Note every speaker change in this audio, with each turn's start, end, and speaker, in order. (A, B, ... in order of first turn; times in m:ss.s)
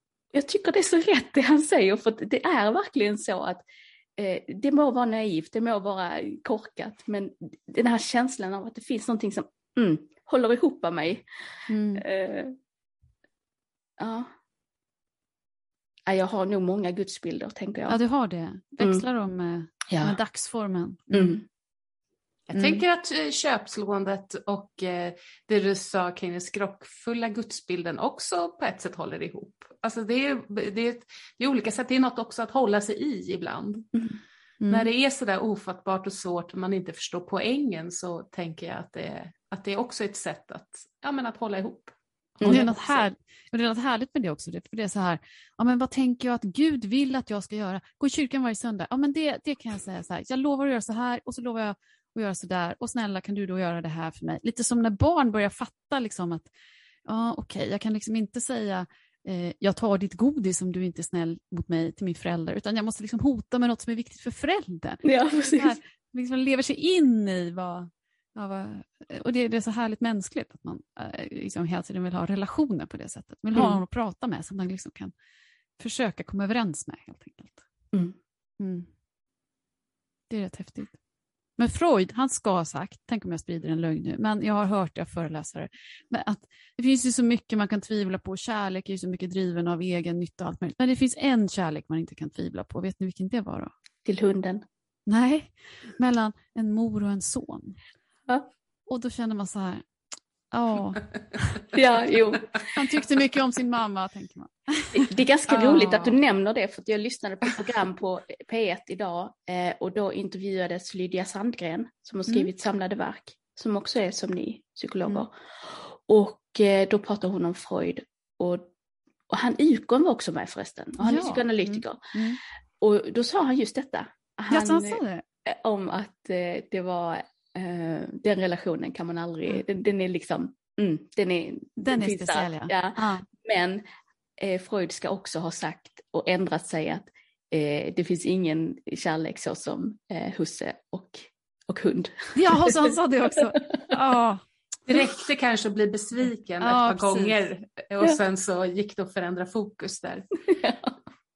0:00.3-0:03.6 A
0:04.2-0:11.2 A
0:11.7-0:12.0 B
0:11.9-0:12.6 A
0:14.0-0:14.3 A
0:16.1-0:18.0 A
0:17.9-0:21.4 B
0:19.9-0:20.2 A
0:21.1-0:21.4 A
0:22.5-0:33.9 C
0:34.6-0:34.9 B
0:34.7-0:43.1 C
0:42.4-0:42.7 A
0:42.5-0:56.5 B
0:57.0-1:15.1 B
1:05.0-1:05.8 A
1:15.8-1:17.6 B
1:17.9-1:18.2 A
1:18.6-1:18.9 B
1:20.3-1:21.0 B
1:21.6-1:33.7 B
1:34.0-1:34.6 A
1:35.1-1:37.8 B
1:38.9-1:39.8 B
1:40.5-1:41.6 B
1:41.7-1:42.8 A
1:42.7-1:46.1 B
1:44.9-1:58.7 A
1:59.3-2:02.0 A
2:01.0-2:02.4 B
2:02.8-2:13.8 A
2:04.5-2:05.2 B
2:11.8-2:13.2 B
2:14.4-2:23.8 A
2:22.3-2:24.4 B
2:24.9-2:30.3 C
2:26.6-2:27.5 B
2:30.5-2:31.0 A